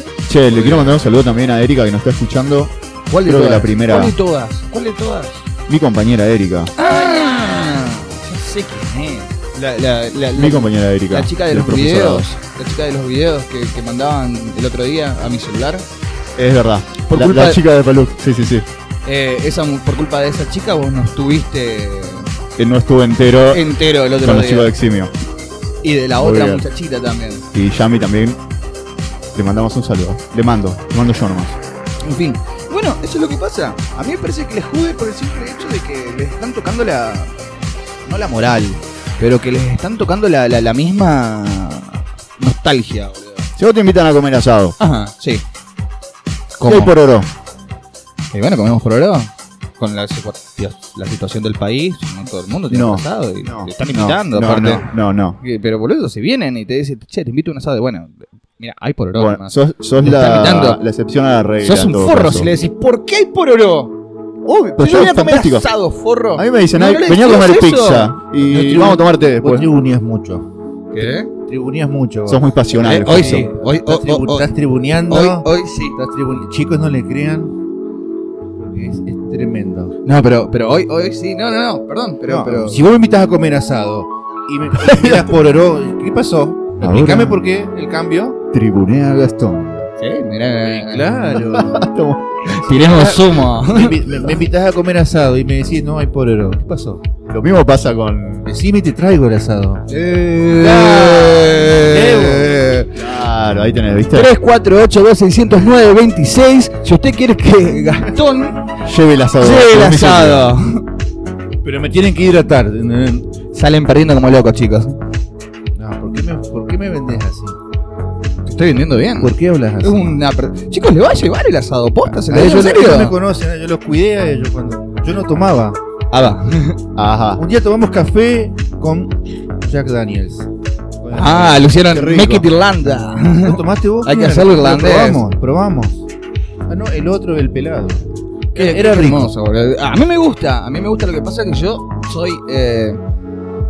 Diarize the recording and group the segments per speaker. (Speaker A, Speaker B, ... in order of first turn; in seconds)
Speaker A: 0.3-4.2, 5.7-6.7, 10.3-12.3, 16.4-18.7, 22.6-25.1, 26.2-26.6, 27.5-28.4, 29.4-31.6, 43.6-44.8, 46.6-47.3, 52.7-55.4, 59.1-62.5, 64.5-65.7, 66.3-69.7, 72.3-73.5, 84.9-85.2, 86.8-87.4, 88.5-89.9, 91.5-92.5, 97.3-98.5, 102.9-104.3, 108.8-110.5, 127.0-127.4, 131.8-132.5
Speaker B: 0.5-1.0, 3.1-5.4, 6.8-15.8, 17.1-17.6, 19.1-22.3, 23.5-24.7, 25.8-27.4, 32.0-37.3, 38.1-43.5, 44.8-45.4, 46.6-46.9, 48.3-60.8, 61.6-64.0, 64.8-68.2, 70.9-71.3, 72.8-74.5, 75.1-76.0, 80.0-82.8, 90.0-91.1, 92.5-94.0, 99.9-102.8, 104.1-108.7, 109.4-110.8, 113.5-115.0, 118.5-123.2, 126.1-126.8, 131.1-135.2, 138.6-143.0
Speaker C: 68.5-70.5, 71.4-72.5, 73.2-77.5, 78.6-80.0, 82.3-88.4, 90.6-91.8, 92.7-97.0, 98.5-99.9, 100.5-102.8, 111.6-113.3, 115.8-117.6, 119.2-120.2, 122.3-125.8, 127.4-130.5, 131.0-131.7, 133.4-136.1, 136.7-138.0, 138.5-139.3